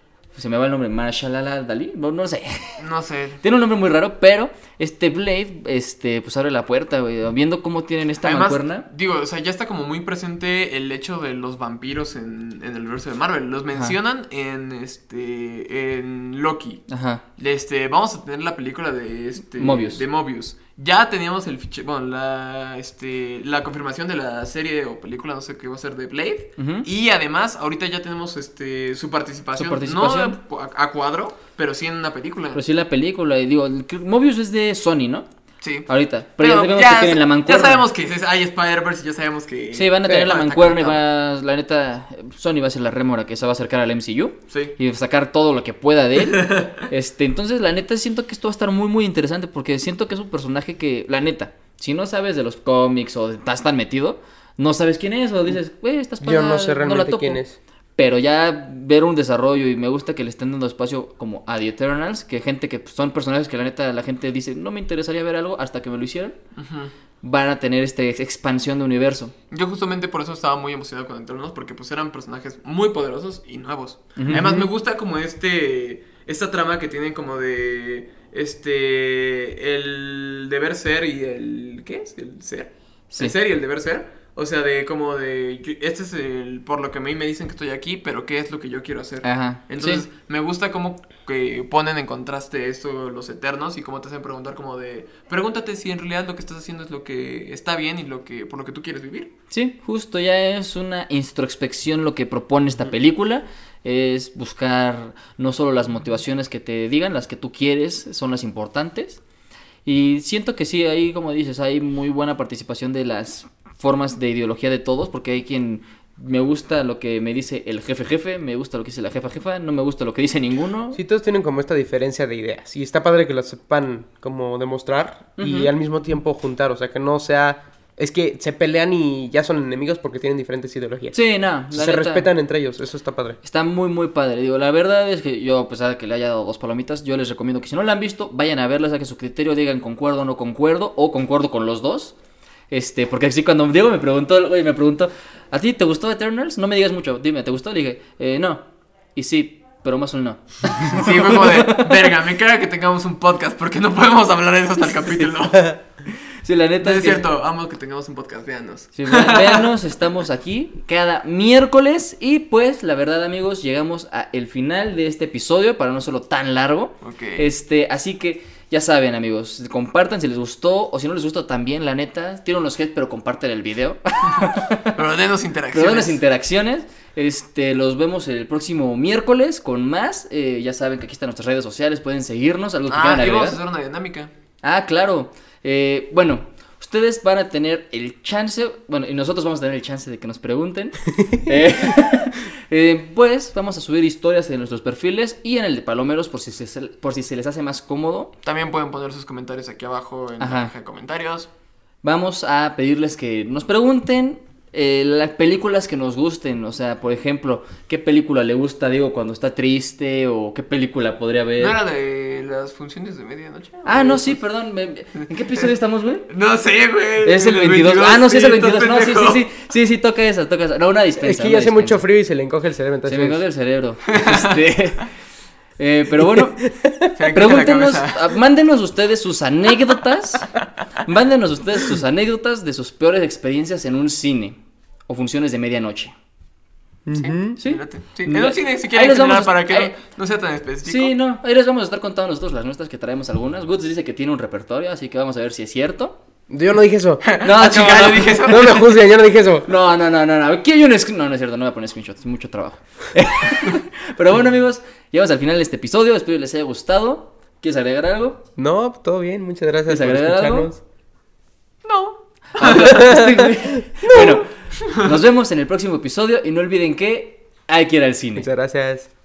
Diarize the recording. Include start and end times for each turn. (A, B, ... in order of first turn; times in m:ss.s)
0:00.3-0:02.8 A
0:02.8-0:03.4 B
0:03.4-0:08.8 A
0:08.2-0:16.8 B
0:16.9-0:17.2 A
0:17.4-0:32.6 B
0:19.6-0:20.0 A
0:26.6-0:26.9 A
0:29.5-0:30.4 A
0:32.5-0:35.3 A
0:35.6-0:41.0 B
0:35.9-0:37.8 A
0:39.7-0:57.4 A
0:44.5-0:44.8 B
0:46.2-0:46.8 B
0:56.2-0:57.6 C
0:58.0-1:06.4 A
1:06.6-1:06.9 B
1:07.2-1:09.3 A
1:09.5-1:39.3 B
1:14.2-1:14.4 A
1:14.3-1:14.7 C
1:29.2-1:30.0 A
1:39.5-1:49.2 A
1:49.8-2:01.0 A
2:00.9-2:11.2 C
2:05.4-2:05.7 A
2:11.1-2:12.3 A
2:11.7-2:13.4 C
2:13.4-2:22.1 A
2:22.7-2:31.9 A
2:30.9-2:35.8 B
2:36.4-2:37.2 A
2:36.8-2:39.7 B
2:39.0-2:55.0 A
2:47.0-2:47.5 B
2:54.4-2:56.2 B
2:55.7-3:03.6 A
3:02.9-3:04.3 B
3:04.6-3:18.3 A
3:18.4-3:21.5 B
3:20.4-3:20.7 A
3:22.0-3:31.7 A
3:31.6-3:34.4 B
3:33.8-3:36.3 A
3:35.2-3:35.6 B
3:36.3-3:39.5 B
3:37.2-3:42.0 A
3:41.2-3:43.4 C
3:43.1-3:45.1 A
3:44.1-3:44.6 B
3:45.8-3:46.7 A
3:46.4-3:47.1 C
3:47.2-3:48.4 B
3:47.3-3:56.1 A
3:57.0-3:57.6 C
3:57.1-4:01.1 B
3:57.6-3:59.9 A
4:00.8-4:06.2 A
4:06.5-4:07.2 C
4:07.2-4:08.8 B
4:07.4-4:08.8 A
4:08.4-4:09.7 C
4:09.6-4:18.4 A
4:18.6-4:20.8 C
4:19.9-4:20.7 A
4:21.8-4:23.0 B
4:22.5-4:28.5 A
4:22.6-4:24.4 C
4:24.8-4:25.1 B
4:28.4-4:29.1 C